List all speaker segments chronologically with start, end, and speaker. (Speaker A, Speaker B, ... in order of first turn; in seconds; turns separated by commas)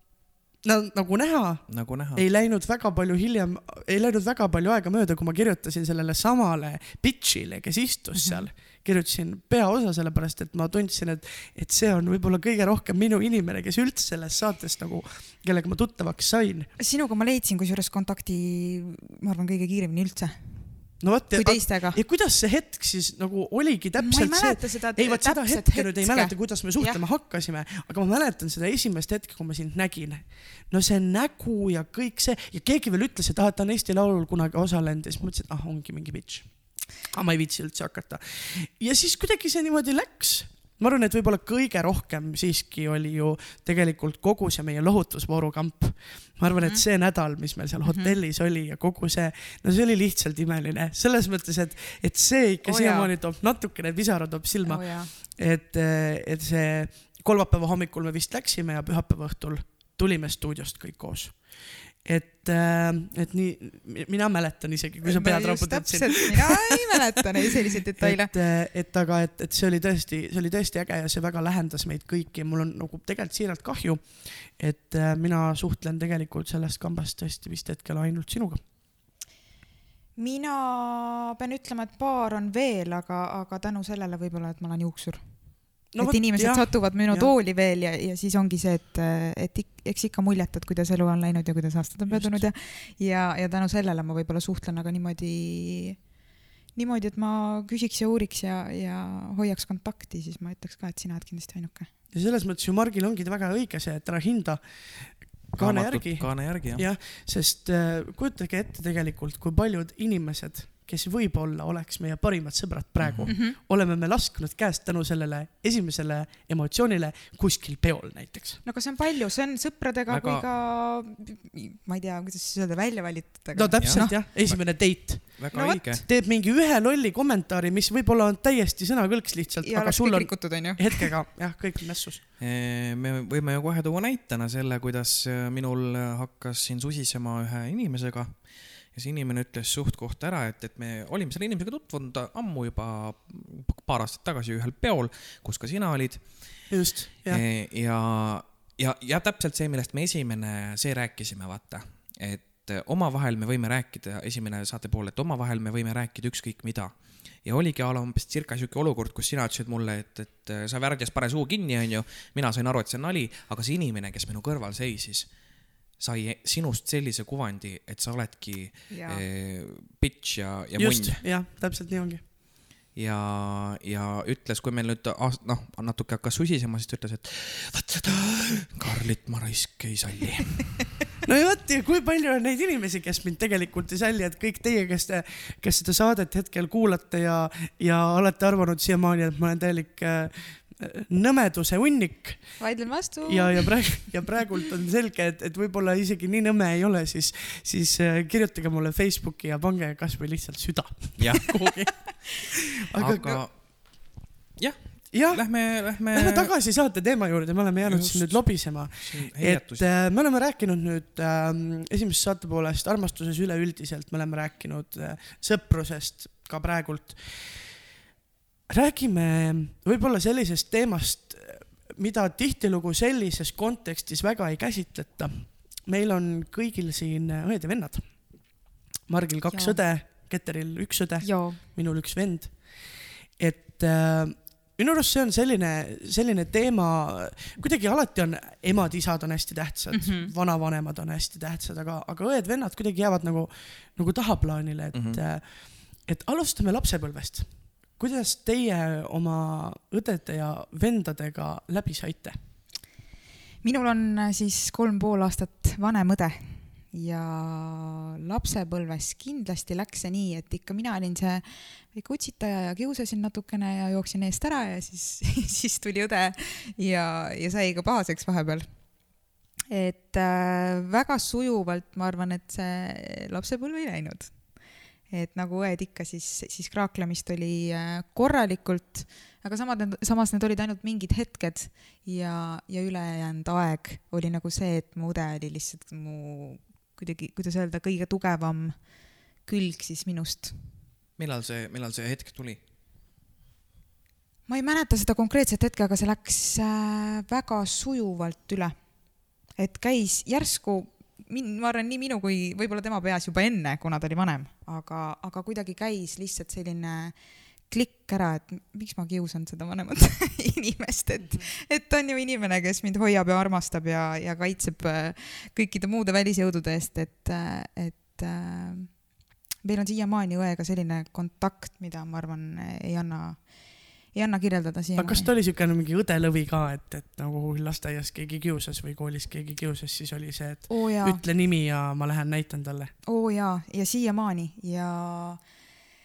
Speaker A: 0.6-16.7, Speaker B: 1.7-2.2, Speaker C: 8.2-8.4, Speaker C: 16.8-22.0, Speaker A: 21.0-66.9, Speaker C: 24.0-27.0, Speaker C: 46.6-46.8, Speaker C: 47.9-48.1, Speaker C: 52.6-53.1, Speaker C: 54.6-55.1, Speaker C: 65.0-68.3, Speaker A: 68.0-78.6, Speaker C: 80.2-96.1, Speaker A: 85.9-87.3, Speaker A: 92.1-92.4, Speaker C: 96.7-101.9, Speaker A: 102.1-118.6, Speaker B: 105.6-106.8, Speaker B: 113.0-113.3, Speaker C: 113.3-113.5, Speaker C: 118.6-124.2, Speaker B: 120.1-120.4, Speaker A: 123.5-132.2, Speaker B: 123.8-126.0, Speaker C: 125.5-125.8, Speaker C: 129.6-131.1, Speaker B: 132.4-146.7, Speaker A: 146.7-147.4, Speaker B: 147.3-165.3, Speaker B: 166.0-171.2, Speaker C: 168.9-169.2, Speaker A: 170.8-172.2, Speaker B: 172.9-180.9, Speaker A: 181.2-192.6, Speaker C: 192.6-194.1, Speaker A: 193.2-203.4, Speaker B: 201.2-201.5, Speaker B: 203.0-206.5, Speaker A: 205.1-217.7, Speaker B: 207.8-209.9, Speaker A: 218.7-252.4, Speaker C: 229.5-229.8, Speaker C: 231.2-231.6, Speaker C: 239.9-240.3, Speaker B: 244.9-245.2, Speaker C: 253.6-268.7, Speaker C: 269.7-290.6, Speaker B: 291.2-292.6, Speaker C: 294.5-307.2, Speaker C: 307.7-325.3, Speaker A: 324.9-332.9, Speaker C: 330.7-331.2, Speaker C: 333.1-335.4